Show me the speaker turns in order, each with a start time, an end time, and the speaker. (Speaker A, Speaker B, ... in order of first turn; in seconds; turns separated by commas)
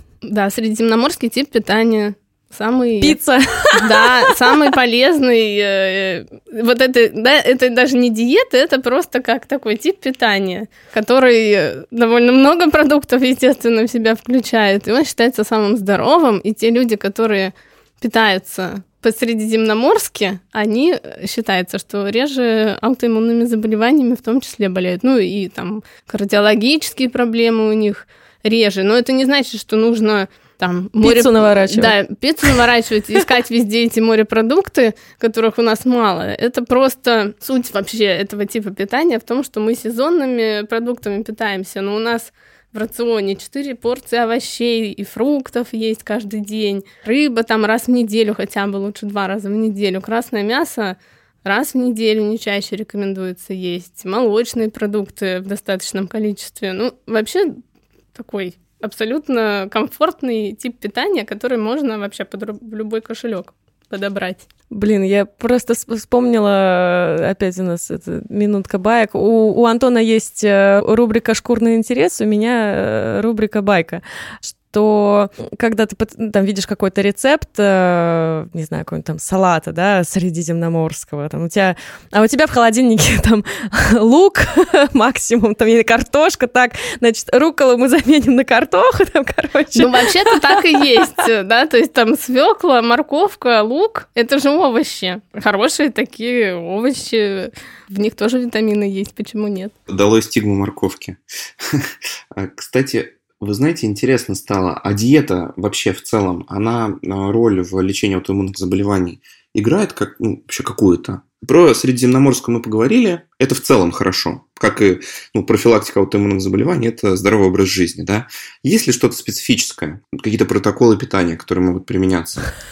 Speaker A: 0.2-3.2, Speaker B: 3.0-4.6, Speaker A: 3.7-57.6, Speaker B: 31.0-32.0, Speaker A: 58.1-64.5, Speaker B: 64.7-90.9, Speaker A: 89.8-99.7, Speaker C: 99.9-122.5